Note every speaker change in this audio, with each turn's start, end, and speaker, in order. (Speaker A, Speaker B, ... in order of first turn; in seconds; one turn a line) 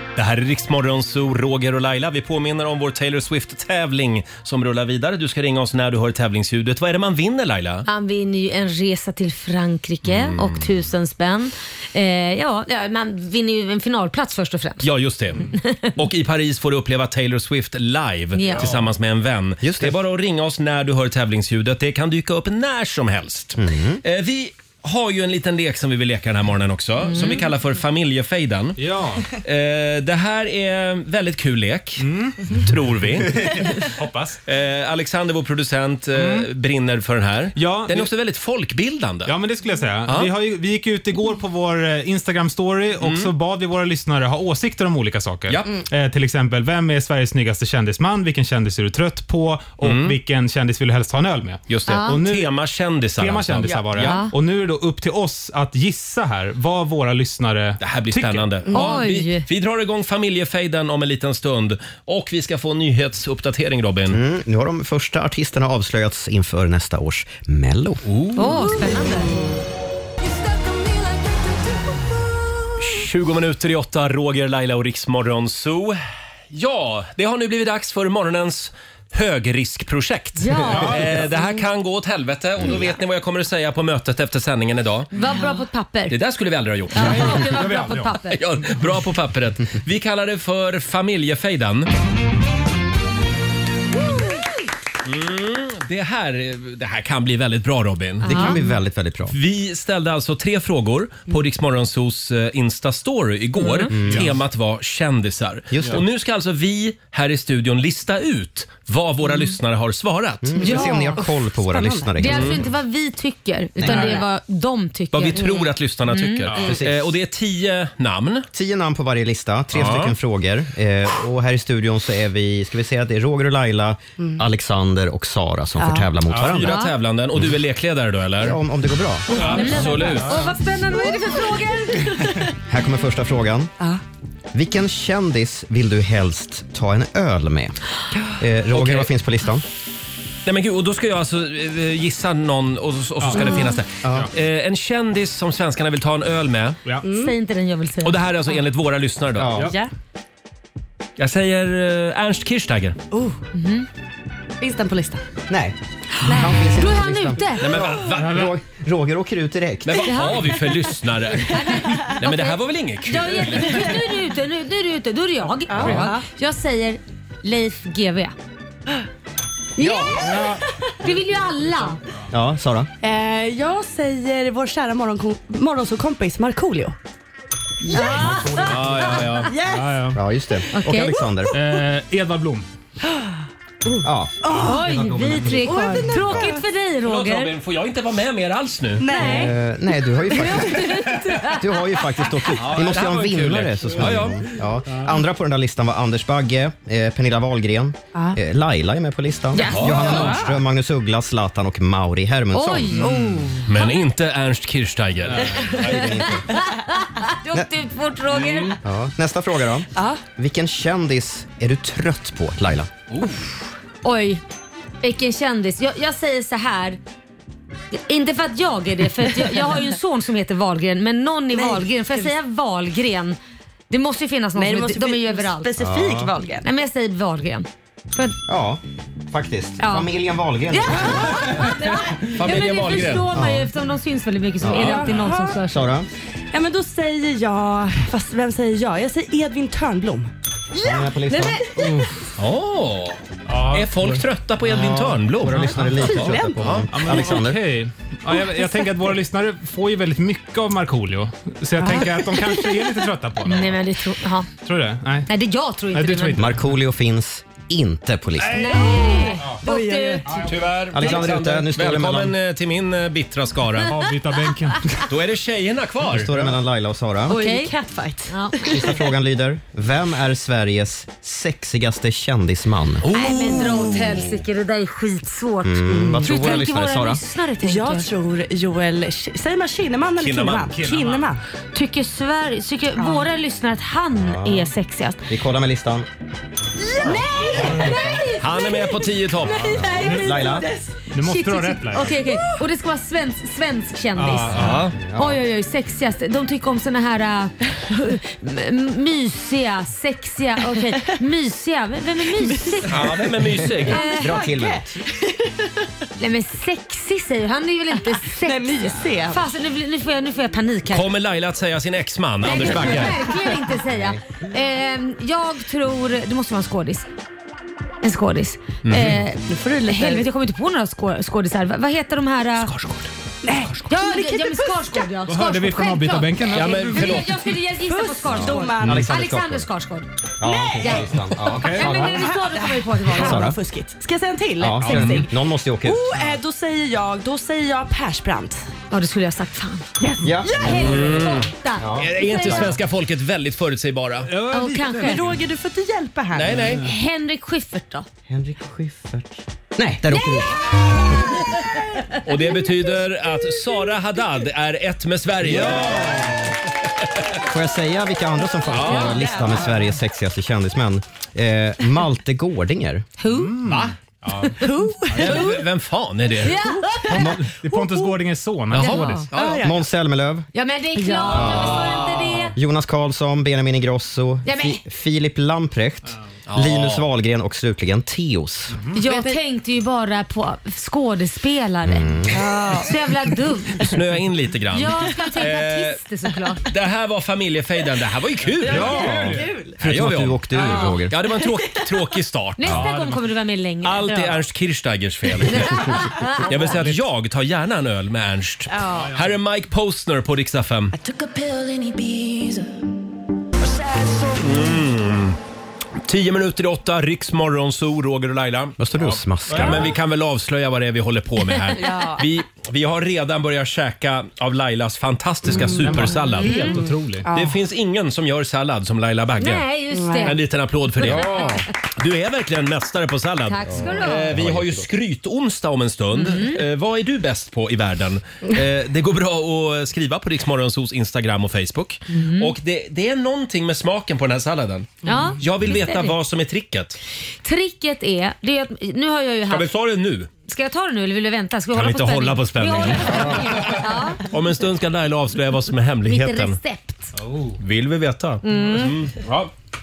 Speaker A: 0.2-7.8
Speaker B: 7.8-14.9
Speaker A: 10.1-10.7
Speaker A: 14.8-15.4
Speaker B: 15.5-15.9
Speaker A: 16.0-28.8
Speaker B: 18.4-18.7
Speaker C: 18.5-18.8
Speaker D: 19.6-20.0
Speaker D: 23.6-24.0
Speaker B: 27.1-27.4
Speaker C: 28.8-29.3
Speaker A: 29.4-33.6
Speaker C: 32.0-34.4
Speaker A: 34.5-39.4
Speaker C: 36.1-36.5
Speaker C: 37.5-38.1
Speaker C: 39.2-52.5
Speaker A: 40.1-40.3
Speaker A: 43.0-43.3
Speaker A: 49.8-50.2
Speaker A: 51.7-54.1
Speaker B: 51.9-52.2
Speaker C: 53.2-58.5
Speaker E: 53.7-53.9
Speaker B: 54.0-54.3
Speaker A: 57.8-64.2
Speaker E: 58.7-59.0
Speaker B: 58.7-59.5
Speaker D: 64.1-68.0
Speaker A: 68.0-68.5
Speaker B: 68.4-69.3
Speaker E: 68.6-69.6
Speaker F: 70.2-72.0
Speaker A: 72.8-76.0
Speaker A: 76.5-85.1
Speaker B: 80.4-81.0
Speaker C: 80.7-81.2
Speaker B: 85.1-86.2
Speaker A: 86.1-87.5
Speaker B: 86.9-88.4
Speaker C: 87.0-88.2
Speaker A: 88.3-91.9
Speaker A: 95.0-98.5
Speaker D: 98.2-99.3
Speaker B: 98.3-98.6
Speaker A: 99.3-110.5
Speaker D: 103.9-104.3
Speaker C: 104.0-104.3
Speaker D: 105.7-106.0
Speaker D: 110.4-112.7
Speaker E: 110.6-112.2
Speaker B: 110.6-111.2
Speaker B: 112.2-115.5
Speaker A: 112.3-112.6
Speaker E: 113.8-114.2
Speaker A: 115.1-118.5
Speaker E: 115.4-115.7
Speaker B: 116.1-116.5
Speaker D: 116.5-117.1
Speaker D: 118.5-126.8
Speaker A: 119.8-120.1
Speaker E: 125.8-126.1
Speaker C: 126.3-126.6
Speaker A: 126.4-128.6
Speaker B: 126.6-126.9
Speaker D: 128.4-129.5
Speaker C: 129.4-130.5
Speaker B: 129.4-132.3
Speaker E: 129.4-129.7
Speaker A: 129.6-130.4
Speaker E: 132.1-132.4
Speaker D: 132.7-133.7
Speaker D: 134.5-137.8
Speaker D: 138.4-139.6
Speaker A: 138.7-139.1
Speaker A: 140.5-146.8
Speaker C: 143.2-143.5
Speaker E: 143.3-143.7
Speaker D: 144.0-144.3
Speaker E: 147.0-147.3
Speaker B: 147.2-148.2
Speaker A: 148.0-149.7
Speaker D: 149.4-149.7
Speaker C: 149.5-149.8
Speaker E: 149.6-149.9
Speaker A: 151.2-153.0
Speaker E: 153.1-153.4
Speaker B: 153.5-153.9
Speaker E: 154.6-155.2
Speaker D: 155.5-160.3
Speaker B: 156.2-157.7
Speaker E: 156.3-156.6
Speaker A: 157.6-158.5
Speaker A: 159.8-164.0
Speaker B: 160.1-160.6
Speaker E: 161.4-162.1
Speaker B: 161.5-168.3
Speaker E: 163.7-164.0
Speaker E: 165.7-166.2
Speaker D: 165.7-166.0
Speaker B: 169.8-170.2
Speaker D: 169.8-170.2
Speaker E: 170.2-170.6
Speaker C: 170.2-170.6
Speaker B: 171.0-172.0
Speaker D: 172.3-172.9
Speaker E: 173.0-177.0
Speaker E: 177.9-178.6
Speaker B: 177.9-178.7
Speaker C: 177.9-180.2
Speaker A: 178.6-179.5
Speaker E: 179.5-180.1
Speaker D: 180.1-181.6
Speaker B: 180.7-181.3
Speaker C: 181.5-182.7
Speaker E: 183.1-186.7
Speaker D: 184.0-184.4
Speaker B: 184.6-187.5
Speaker C: 184.8-185.7
Speaker A: 187.0-189.1
Speaker E: 189.0-189.6
Speaker B: 189.1-189.5
Speaker D: 189.2-190.9
Speaker B: 190.3-191.7
Speaker D: 191.5-203.1
Speaker A: 192.6-194.4
Speaker B: 199.5-200.2
Speaker A: 199.8-200.4
Speaker B: 202.5-203.6
Speaker E: 203.0-203.6
Speaker C: 203.0-203.4
Speaker A: 203.7-206.2
Speaker E: 205.4-206.1
Speaker D: 205.5-206.5
Speaker B: 206.5-208.8
Speaker A: 208.4-208.7
Speaker D: 208.8-212.9
Speaker E: 210.0-210.2
Speaker B: 214.0-214.4
Speaker B: 215.0-217.0
Speaker B: 217.9-223.4
Speaker E: 219.4-219.8
Speaker E: 221.5-222.3
Speaker B: 223.9-225.7
Speaker E: 224.6-226.7
Speaker D: 225.8-226.3
Speaker B: 226.6-228.4
Speaker D: 228.5-231.6
Speaker B: 229.8-230.1
Speaker B: 230.7-235.8
Speaker A: 232.3-233.3
Speaker D: 233.3-233.7
Speaker D: 234.6-235.1
Speaker E: 234.7-235.6
Speaker D: 235.7-236.1
Speaker E: 236.5-241.6
Speaker D: 240.8-241.8
Speaker B: 241.3-241.6
Speaker C: 241.8-242.1
Speaker A: 242.4-246.9
Speaker C: 243.5-244.2
Speaker D: 244.7-247.6
Speaker C: 245.5-246.2
Speaker E: 246.0-247.4
Speaker C: 246.9-253.8
Speaker B: 253.4-254.5
Speaker C: 254.6-255.3
Speaker B: 255.3-256.5
Speaker C: 255.9-256.6
Speaker D: 256.4-258.8
Speaker C: 258.5-258.7
Speaker B: 258.5-260.3
Speaker E: 258.8-260.6
Speaker C: 260.3-260.6
Speaker A: 260.4-264.0
Speaker D: 260.9-262.4
Speaker C: 263.8-265.1
Speaker A: 265.1-266.3
Speaker D: 266.1-267.4
Speaker B: 267.3-267.7
Speaker E: 267.3-269.0
Speaker B: 268.3-268.7
Speaker D: 268.7-273.1
Speaker A: 273.0-273.8
Speaker B: 273.1-278.1
Speaker E: 273.2-274.2
Speaker D: 275.6-277.2
Speaker E: 275.9-276.6
Speaker E: 277.6-281.4
Speaker A: 280.2-280.7
Speaker C: 280.7-281.3
Speaker B: 281.7-285.2
Speaker E: 283.0-283.3
Speaker D: 284.2-284.7
Speaker D: 285.3-286.1
Speaker E: 286.9-288.0
Speaker B: 286.9-290.6
Speaker C: 287.6-288.2
Speaker A: 288.4-289.7
Speaker E: 289.5-291.0
Speaker D: 289.8-290.7
Speaker C: 291.1-292.1
Speaker B: 291.2-303.3
Speaker C: 294.1-294.9
Speaker A: 294.5-294.9
Speaker D: 295.0-295.4
Speaker E: 302.3-303.1
Speaker A: 302.9-304.0
Speaker D: 303.6-304.9
Speaker E: 303.8-305.9
Speaker B: 303.9-304.4
Speaker B: 306.2-311.1
Speaker E: 308.4-309.5
Speaker A: 310.9-313.3
Speaker B: 312.4-317.1
Speaker E: 312.6-313.3
Speaker D: 313.9-314.2
Speaker B: 318.0-322.7
Speaker A: 318.9-319.2
Speaker E: 319.5-320.3
Speaker A: 322.6-323.1
Speaker E: 323.4-325.0
Speaker B: 323.9-330.1
Speaker C: 325.3-327.3
Speaker A: 326.5-327.3
Speaker E: 327.8-329.1
Speaker D: 328.6-329.7
Speaker D: 330.4-332.3
Speaker E: 330.4-330.9
Speaker B: 330.7-331.1
Speaker C: 331.5-331.9
Speaker B: 331.7-333.5
Speaker E: 331.8-335.3
Speaker D: 333.1-333.6
Speaker D: 334.6-336.1
Speaker C: 334.8-335.2
Speaker E: 335.8-338.7
Speaker B: 338.9-339.9
Speaker E: 340.0-341.1
Speaker D: 340.2-340.9
Speaker B: 340.4-342.8
Speaker A: 340.7-344.3
Speaker D: 341.8-342.7
Speaker C: 344.3-345.3
Speaker B: 344.5-345.3
Speaker E: 345.0-346.7
Speaker A: 346.3-346.8
Speaker B: 346.8-348.1
Speaker D: 348.3-350.6
Speaker B: 350.1-350.6
Speaker A: 352.2-356.4
Speaker D: 355.4-356.4
Speaker D: 357.4-363.1
Speaker A: 358.7-359.3
Speaker E: 358.8-359.7
Speaker B: 363.2-363.7
Speaker C: 363.3-364.6
Speaker A: 363.6-363.9
Speaker E: 364.6-365.6
Speaker A: 365.1-366.6
Speaker B: 365.2-365.6
Speaker B: 366.4-367.3
Speaker E: 366.5-368.2
Speaker C: 367.1-369.3
Speaker D: 367.1-367.4
Speaker A: 368.7-369.7
Speaker E: 368.8-369.8
Speaker D: 369.6-370.5
Speaker B: 370.5-372.5
Speaker E: 371.0-372.0
Speaker D: 371.3-372.0
Speaker D: 372.6-378.8
Speaker B: 374.4-374.8
Speaker A: 376.5-377.1
Speaker C: 378.7-378.9
Speaker B: 378.9-382.2
Speaker E: 379.0-379.4
Speaker D: 381.9-382.5
Speaker E: 382.3-382.9
Speaker B: 382.7-383.8
Speaker A: 383.8-386.0
Speaker B: 384.7-386.7
Speaker A: 386.7-389.1
Speaker E: 388.6-389.8
Speaker C: 388.6-389.5
Speaker D: 388.9-391.2
Speaker A: 389.8-392.9
Speaker E: 390.6-391.7
Speaker B: 390.6-390.9
Speaker B: 392.6-394.2
Speaker C: 392.7-393.2
Speaker A: 393.8-400.9
Speaker B: 395.5-396.5
Speaker C: 396.7-397.0
Speaker E: 398.7-399.1
Speaker F: 400.9-402.8
Speaker F: 403.6-404.8
Speaker A: 404.4-405.4
Speaker A: 406.1-408.8
Speaker D: 408.8-409.9
Speaker C: 409.0-409.7
Speaker A: 409.5-416.6
Speaker E: 411.8-412.2
Speaker E: 415.5-416.7
Speaker C: 415.7-417.3
Speaker B: 416.4-416.8
Speaker E: 417.2-417.6
Speaker A: 417.3-419.7
Speaker B: 419.4-420.4
Speaker E: 419.9-420.4
Speaker A: 420.2-437.0
Speaker B: 421.0-421.6
Speaker B: 423.5-424.4
Speaker D: 423.8-424.9
Speaker B: 426.1-426.6
Speaker B: 432.1-432.5
Speaker B: 435.1-436.2
Speaker E: 435.1-435.3
Speaker B: 437.4-439.7
Speaker A: 439.5-440.3
Speaker B: 440.5-444.2
Speaker A: 441.7-446.6
Speaker B: 446.1-447.1
Speaker C: 447.2-447.6
Speaker A: 447.6-449.5
Speaker B: 448.4-449.0